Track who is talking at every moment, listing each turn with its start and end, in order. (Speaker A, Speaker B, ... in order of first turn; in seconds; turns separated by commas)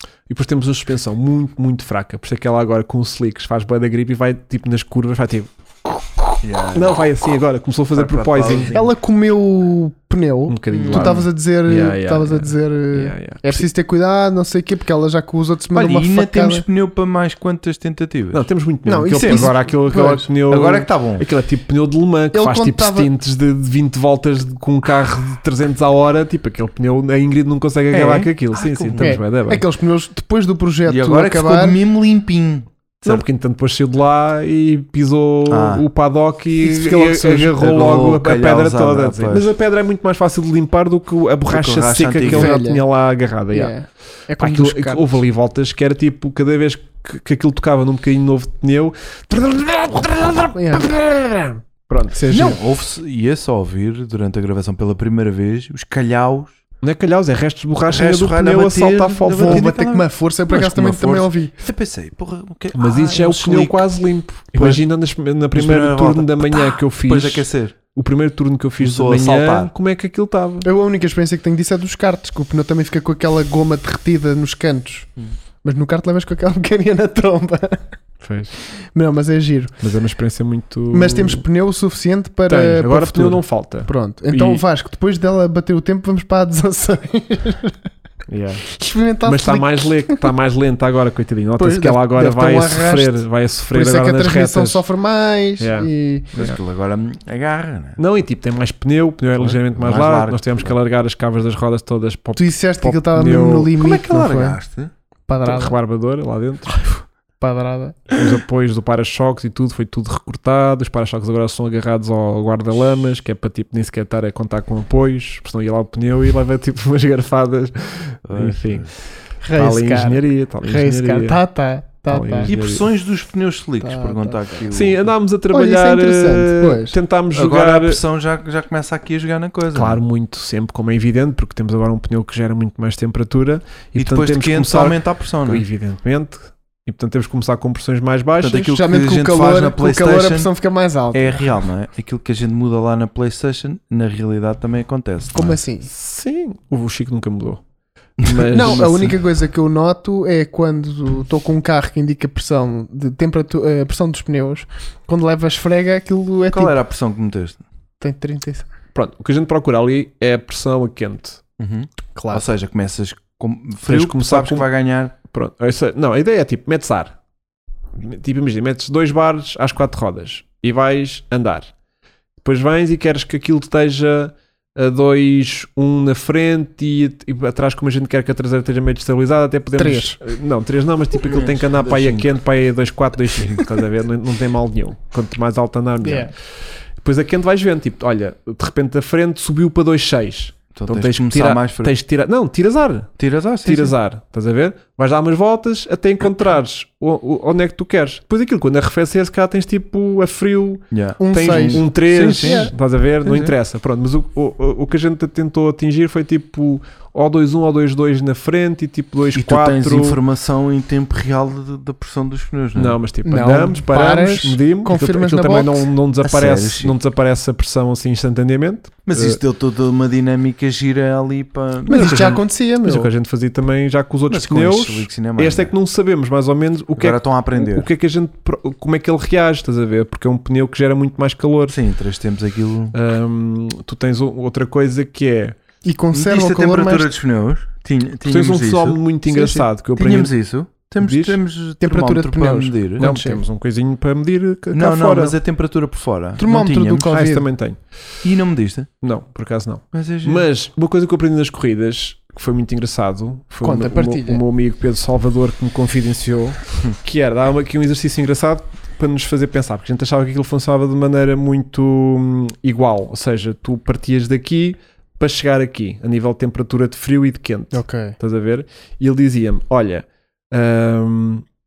Speaker A: 0.3-8.8, Speaker B: 6.4-7.0, Speaker B: 7.9-8.9, Speaker C: 8.7-16.6, Speaker A: 10.5-13.7, Speaker B: 10.7-11.3, Speaker B: 15.7-18.5, Speaker A: 18.3-29.6, Speaker C: 18.9-20.3, Speaker B: 19.1-19.5, Speaker B: 20.5-21.2, Speaker C: 22.3-23.1, Speaker B: 27.9-29.2, Speaker C: 29.0-31.8, Speaker B: 30.9-33.2, Speaker A: 33.0-43.7, Speaker B: 35.5-35.9, Speaker B: 36.6-39.5, Speaker B: 41.5-42.6, Speaker C: 42.2-42.8, Speaker C: 43.5-45.2, Speaker A: 44.4-52.5, Speaker C: 50.5-50.9, Speaker C: 52.1-52.6, Speaker B: 52.3-56.5, Speaker A: 56.8-59.7, Speaker B: 57.9-63.9, Speaker C: 59.3-61.5, Speaker A: 62.7-70.7, Speaker B: 64.5-64.8, Speaker B: 65.5-67.8, Speaker B: 68.8-69.7, Speaker C: 70.6-75.1, Speaker C: 75.6-77.8, Speaker A: 78.2-78.5, Speaker C: 78.9-79.7, Speaker A: 79.8-81.4, Speaker C: 80.9-87.8, Speaker A: 82.5-84.6, Speaker A: 88.3-88.7, Speaker C: 88.7-90.3, Speaker A: 89.2-94.8, Speaker C: 91.6-96.3, Speaker A: 95.6-96.6, Speaker B: 96.3-98.0, Speaker A: 98.0-103.7, Speaker B: 99.4-100.8, Speaker C: 102.3-104.6, Speaker B: 103.7-104.9, Speaker C: 105.3-105.7, Speaker A: 105.4-107.0, Speaker C: 107.4-108.2, Speaker A: 108.1-118.9, Speaker B: 118.3-118.9, Speaker C: 119.4-122.5, Speaker A: 119.5-121.4, Speaker A: 122.1-122.8, Speaker B: 122.5-125.1, Speaker C: 123.8-124.4, Speaker A: 124.7-128.0, Speaker C: 125.5-127.0, Speaker B: 127.3-130.0, Speaker A: 129.7-138.7, Speaker B: 133.9-135.6, Speaker B: 138.4-140.5, Speaker C: 138.6-141.4, Speaker B: 141.1-145.6, Speaker C: 145.3-145.9, Speaker A: 145.9-147.6, Speaker B: 148.2-149.2, Speaker A: 148.2-149.1, Speaker C: 148.5-156.8, Speaker B: 156.5-157.6, Speaker C: 158.0-158.7, Speaker A: 158.9-161.4, Speaker B: 161.6-165.1, Speaker C: 162.1-162.4, Speaker A: 163.8-164.7, Speaker A: 165.3-167.2, Speaker A: 167.9-171.7, Speaker A: 172.4-186.3, Speaker C: 179.8-180.2, Speaker B: 181.2-182.3, Speaker B: 183.3-183.8, Speaker C: 186.0-186.3, Speaker A: 187.0-193.1, Speaker B: 190.7-191.9, Speaker B: 193.2-193.9, Speaker A: 193.6-210.2, Speaker B: 200.9-203.5, Speaker C: 201.2-202.7, Speaker B: 209.3-213.0, Speaker A: 212.8-219.4, Speaker C: 213.2-215.9, Speaker B: 216.2-216.9, Speaker B: 219.1-222.3, Speaker C: 221.8-223.1, Speaker A: 221.9-231.8, Speaker B: 224.3-225.7, Speaker B: 227.0-227.9, Speaker B: 231.7-232.9, Speaker A: 232.9-235.6, Speaker C: 235.8-237.1, Speaker B: 236.1-239.0, Speaker A: 238.3-240.3, Speaker C: 239.3-239.7, Speaker B: 239.9-243.1, Speaker A: 241.0-241.4, Speaker C: 241.8-243.4, Speaker A: 243.0-245.3, Speaker B: 244.7-247.1, Speaker C: 246.4-247.5, Speaker A: 247.1-247.8, Speaker B: 248.2-248.9, Speaker A: 249.0-271.4, Speaker B: 249.9-250.5, Speaker C: 253.6-254.4, Speaker C: 267.7-268.1